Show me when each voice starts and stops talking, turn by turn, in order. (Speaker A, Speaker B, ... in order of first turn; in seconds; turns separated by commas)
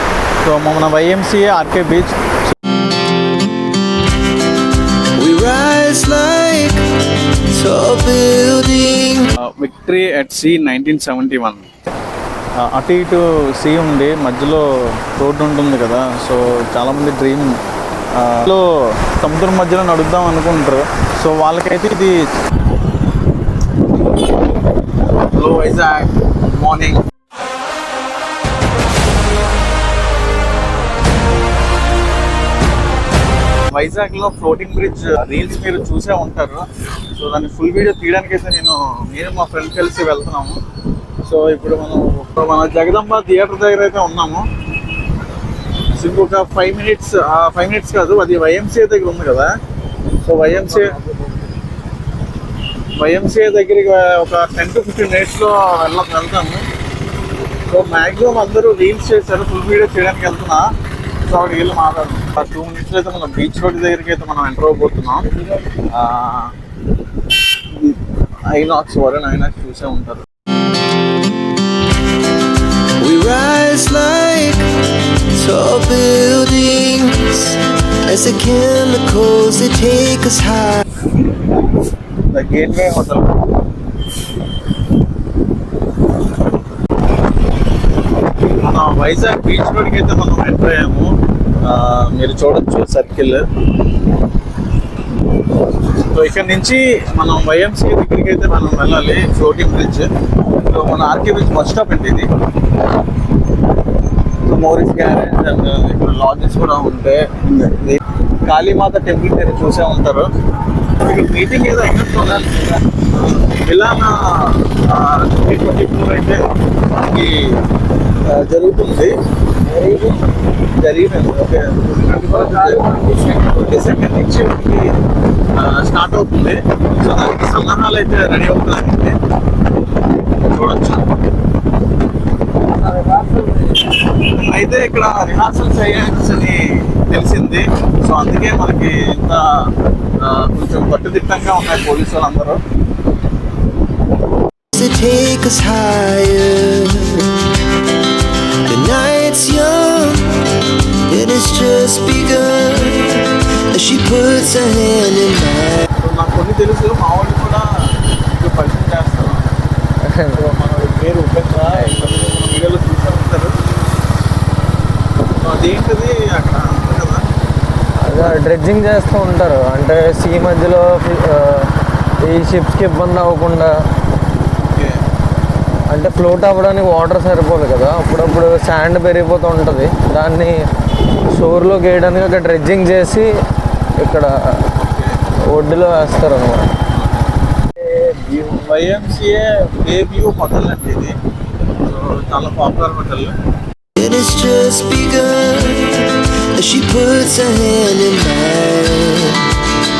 Speaker A: 0.4-2.1, Speaker B: 5.2-6.8, Speaker B: 7.5-9.3, Speaker A: 9.4-11.7, Speaker A: 12.6-17.5, Speaker A: 18.1-22.1, Speaker A: 25.3-27.0, Speaker A: 33.7-40.6, Speaker A: 41.2-44.5, Speaker A: 45.9-49.5, Speaker A: 50.2-50.9, Speaker A: 53.0-56.6, Speaker A: 57.7-60.6, Speaker A: 61.3-65.3, Speaker A: 65.8-66.5, Speaker A: 67.7-70.2, Speaker B: 73.0-80.8, Speaker A: 82.3-83.4, Speaker A: 88.5-91.1, Speaker A: 91.6-93.4, Speaker A: 95.8-102.3, Speaker A: 104.4-110.3, Speaker A: 110.9-117.3, Speaker A: 118.2-119.1, Speaker A: 119.9-124.9, Speaker C: 122.6-123.0, Speaker A: 125.5-129.2, Speaker A: 130.2-131.2, Speaker C: 133.1-133.5, Speaker A: 133.7-139.4, Speaker A: 140.2-142.6, Speaker B: 144.7-147.4, Speaker B: 148.6-150.3, Speaker B: 151.1-155.9, Speaker A: 156.0-159.4, Speaker C: 160.0-160.4, Speaker A: 160.3-163.5, Speaker A: 165.2-167.2, Speaker C: 168.0-171.7, Speaker A: 168.1-168.4, Speaker C: 172.2-173.7, Speaker A: 174.7-175.0, Speaker C: 175.9-180.6, Speaker C: 181.3-183.3, Speaker C: 184.0-184.6, Speaker A: 184.8-185.2, Speaker C: 185.5-186.7, Speaker A: 186.9-191.1, Speaker A: 191.8-193.3, Speaker B: 194.0-199.5